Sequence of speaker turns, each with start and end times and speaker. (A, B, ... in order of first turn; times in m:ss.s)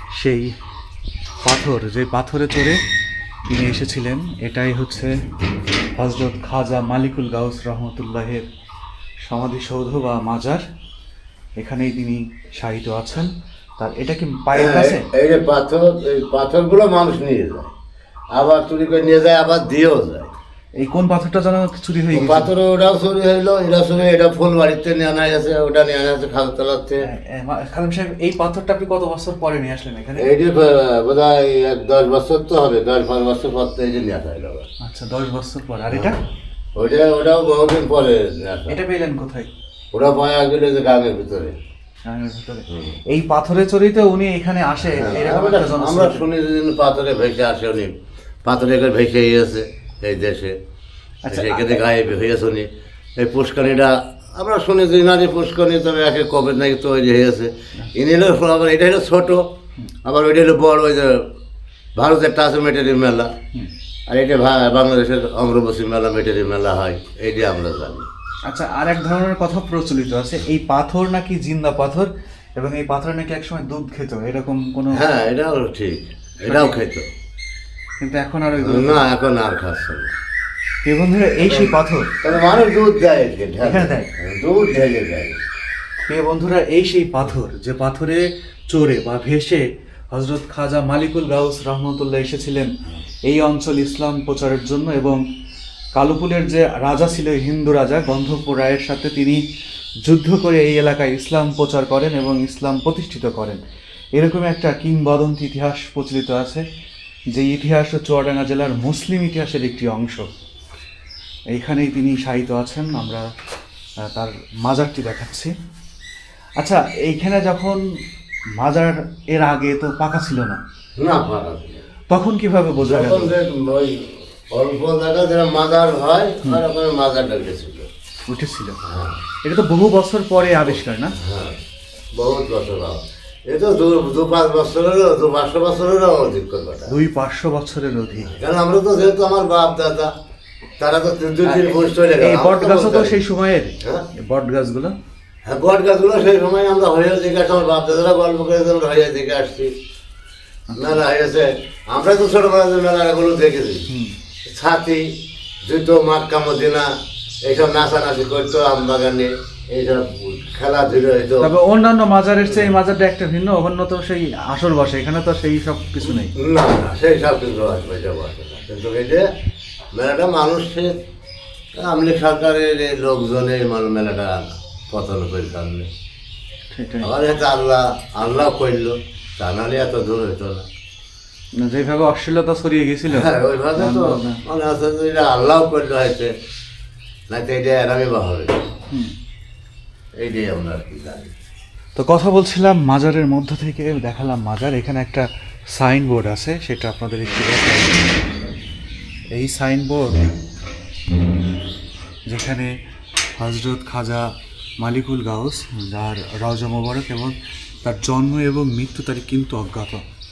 0:00.1-0:00.5 A
0:01.4-0:02.8 A
0:03.5-0:05.2 A
0:06.0-0:08.4 A
0:09.2-0:10.6 A
0:11.6-0:15.0 A
0:14.5-0:17.7 B
0:18.3-0:20.3 B
0:20.8-0:22.5 A
0:22.1-0:27.0 B
0:27.0-0:30.3 A
0:30.2-0:34.6 B
0:34.8-0:36.2 A
0:35.9-0:36.2 B
0:36.8-0:38.7 B
0:38.7-0:39.5 A
0:39.9-0:41.6 B
0:42.0-0:46.2 A
0:42.7-0:43.0 B
0:44.8-0:47.9 B
0:48.4-0:50.5 B
0:51.2-0:51.8 A
0:51.3-0:52.7 B
0:53.2-0:59.4 B
1:00.0-1:01.2 B
1:02.0-1:03.3 B
1:04.1-1:08.1 B
1:08.5-1:15.0 A
1:14.9-1:17.0 B
1:16.4-1:16.8 A
1:18.0-1:19.0 A
1:18.6-1:20.1 B
1:20.8-1:22.2 A
1:21.4-1:25.4 B
1:23.6-1:24.1 A
1:26.1-1:32.7 A
1:33.2-1:35.2 A
1:35.9-1:39.4 A
1:40.0-1:43.6 A
1:44.1-1:46.6 A
1:47.3-1:50.3 A
1:51.5-1:53.3 A
1:54.0-1:55.5 A
1:56.6-1:57.8 A
1:58.6-2:00.6 A
2:01.0-2:01.8 B
2:02.1-2:03.3 A
2:02.8-2:07.9 B
2:08.3-2:08.8 A
2:08.9-2:09.2 B
2:09.4-2:11.1 A
2:10.6-2:11.6 B
2:12.1-2:16.9 B
2:16.9-2:18.3 A
2:18.2-2:20.1 B
2:20.8-2:23.2 B
2:21.4-2:24.9 A
2:25.4-2:29.7 B
2:30.7-2:31.0 A
2:30.8-2:33.9 B
2:33.9-2:34.1 A
2:34.5-2:35.0 B
2:35.6-2:36.9 B
2:37.4-2:41.5 B
2:41.4-2:46.3 A
2:42.4-2:42.7 B
2:46.0-2:49.2 B
2:49.9-2:51.0 B
2:51.8-2:55.9 B
2:56.7-2:57.1 A
2:57.0-3:00.6 B
3:01.6-3:04.4 A
3:03.1-3:06.3 B
3:07.3-3:08.6 B
3:10.2-3:11.3 B
3:12.0-3:18.1 A
3:19.3-3:20.3 A
3:22.3-3:22.7 A
3:23.4-3:30.0 A